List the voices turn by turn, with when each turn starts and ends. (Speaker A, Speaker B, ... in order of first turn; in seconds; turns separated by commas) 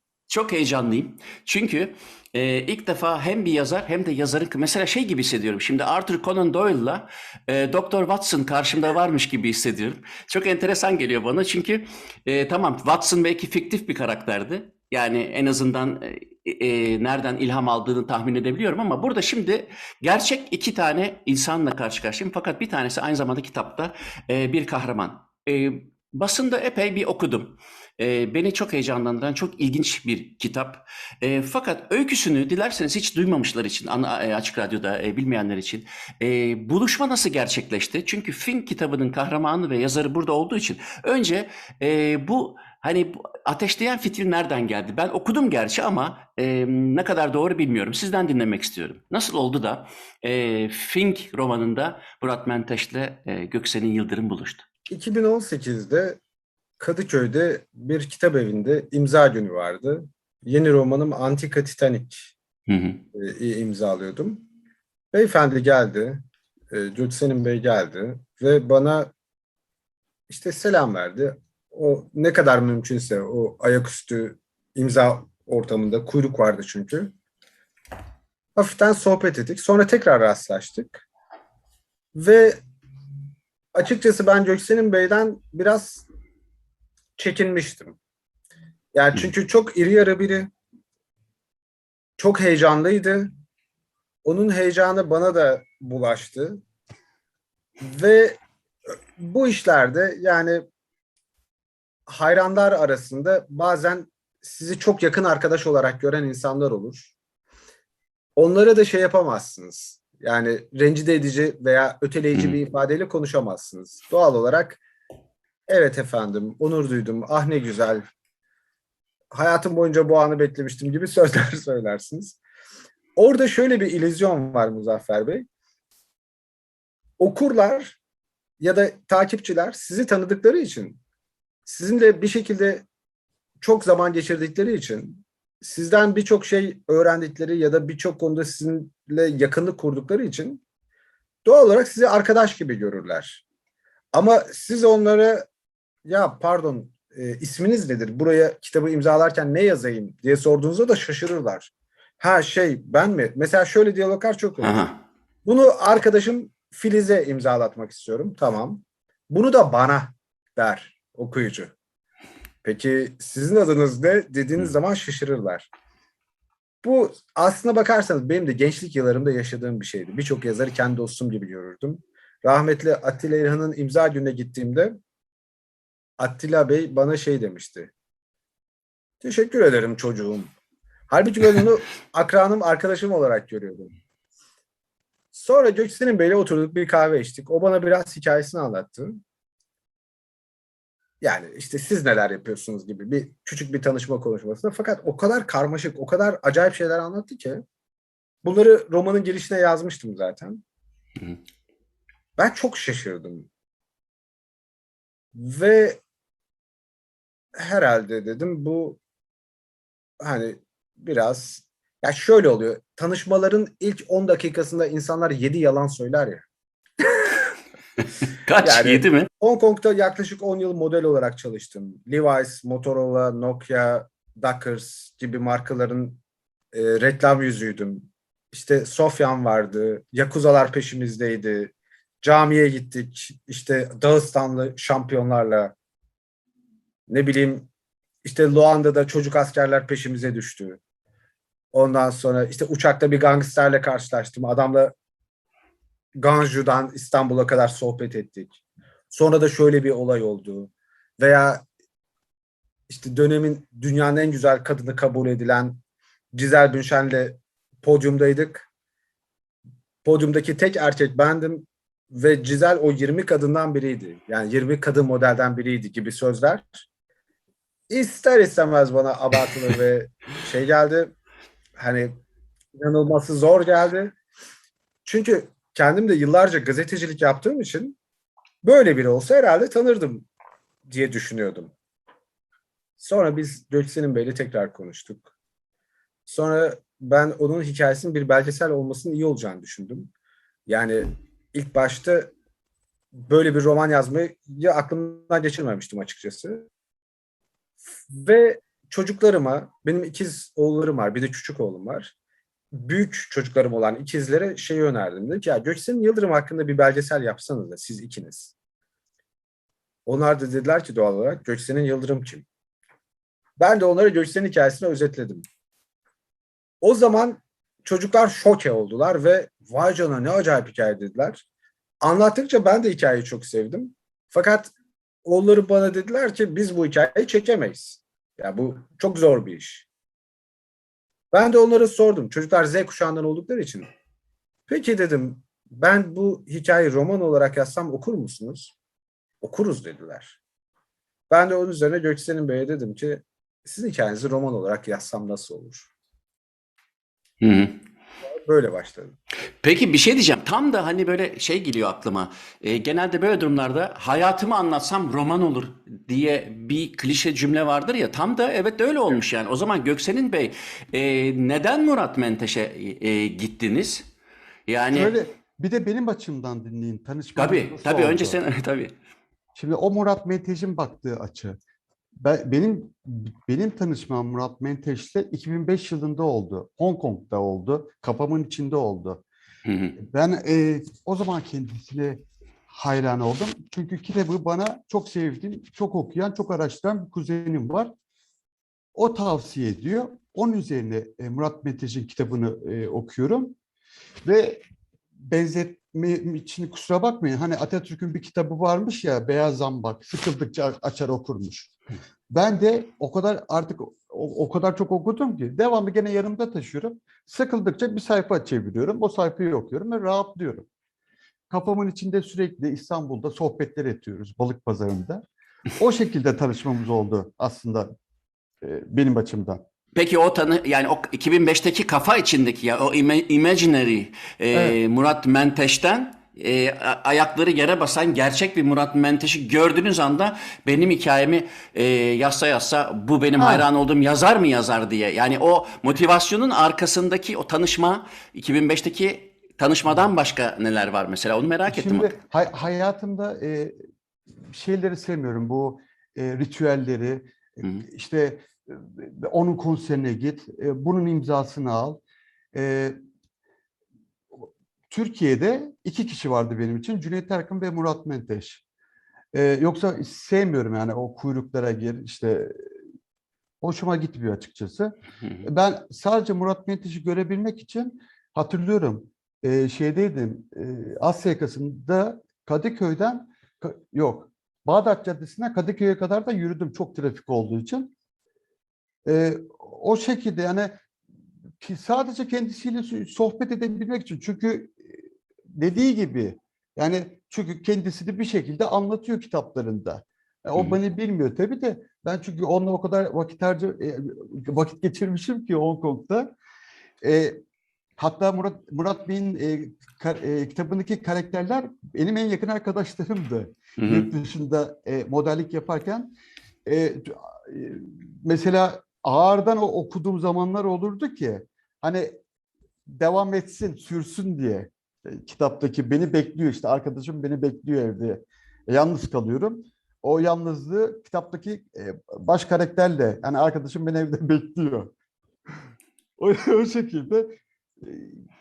Speaker A: 0.3-54.6, Speaker B: 54.9-56.2, Speaker B: 56.8-62.3, Speaker A: 62.7-63.0, Speaker B: 63.1-64.4, Speaker B: 65.1-69.1, Speaker B: 70.3-77.1, Speaker B: 78.5-81.0, Speaker B: 82.1-82.6, Speaker B: 83.7-86.0, Speaker B: 87.2-88.0, Speaker B: 88.9-90.5, Speaker B: 92.2-93.3, Speaker B: 94.2-96.6, Speaker B: 97.8-98.4, Speaker B: 99.2-100.6, Speaker B: 102.1-107.1, Speaker B: 108.3-114.8, Speaker B: 115.7-118.0, Speaker B: 119.3-122.4, Speaker B: 123.2-125.5, Speaker B: 127.2-128.0, Speaker B: 128.6-131.0, Speaker B: 131.7-132.8, Speaker B: 133.6-140.6, Speaker B: 141.4-143.4, Speaker B: 144.1-145.4, Speaker B: 146.0-154.8, Speaker A: 154.6-155.0, Speaker B: 155.4-161.7, Speaker B: 162.6-165.7, Speaker B: 166.8-175.0, Speaker B: 176.2-177.9, Speaker B: 179.2-180.5, Speaker B: 181.1-183.9, Speaker B: 185.3-189.2, Speaker B: 191.2-197.6, Speaker B: 198.4-200.6, Speaker B: 202.4-203.5, Speaker B: 205.3-206.0, Speaker B: 207.5-209.0, Speaker B: 210.2-216.4, Speaker A: 218.2-219.3, Speaker B: 218.6-226.2, Speaker B: 226.7-235.7, Speaker B: 237.1-237.7, Speaker B: 238.2-240.8, Speaker B: 241.7-244.9, Speaker B: 246.2-248.5, Speaker B: 249.1-251.6, Speaker B: 252.9-255.8, Speaker B: 256.3-258.7, Speaker B: 260.0-266.8, Speaker B: 267.9-271.1, Speaker B: 271.8-272.2, Speaker B: 272.8-274.1, Speaker B: 275.0-278.0, Speaker B: 278.6-280.2, Speaker B: 280.9-281.7, Speaker B: 283.0-285.3, Speaker B: 286.3-290.1, Speaker B: 290.7-292.3, Speaker B: 293.2-296.7, Speaker B: 298.1-302.1, Speaker B: 302.7-308.5, Speaker B: 310.1-312.4, Speaker B: 313.6-315.4, Speaker B: 316.8-321.4, Speaker B: 322.0-324.7, Speaker B: 325.2-329.9, Speaker B: 331.3-333.9, Speaker B: 334.7-338.7, Speaker B: 339.4-340.4, Speaker B: 341.3-345.9, Speaker A: 347.4-347.8, Speaker B: 348.2-349.1, Speaker A: 349.6-364.1, Speaker A: 364.7-365.1, Speaker C: 364.9-368.4, Speaker A: 367.4-368.9, Speaker C: 369.5-371.6, Speaker C: 372.1-379.2, Speaker A: 379.6-380.0, Speaker C: 380.0-387.9, Speaker C: 388.9-393.6, Speaker C: 394.2-394.6, Speaker C: 395.2-401.7, Speaker C: 402.3-410.7, Speaker C: 411.5-415.2, Speaker C: 415.8-417.9, Speaker C: 418.6-419.6, Speaker A: 419.9-442.1, Speaker C: 424.5-424.8, Speaker C: 433.4-433.6, Speaker C: 441.7-443.7, Speaker C: 444.5-447.3, Speaker C: 447.8-452.0, Speaker C: 452.5-452.9, Speaker C: 454.3-458.6, Speaker C: 459.3-462.7, Speaker C: 463.6-477.9, Speaker C: 479.0-480.8, Speaker C: 481.6-485.0, Speaker C: 485.6-496.3, Speaker C: 497.0-497.4, Speaker C: 498.0-512.2, Speaker A: 503.8-504.1, Speaker C: 512.9-524.9, Speaker C: 526.2-528.2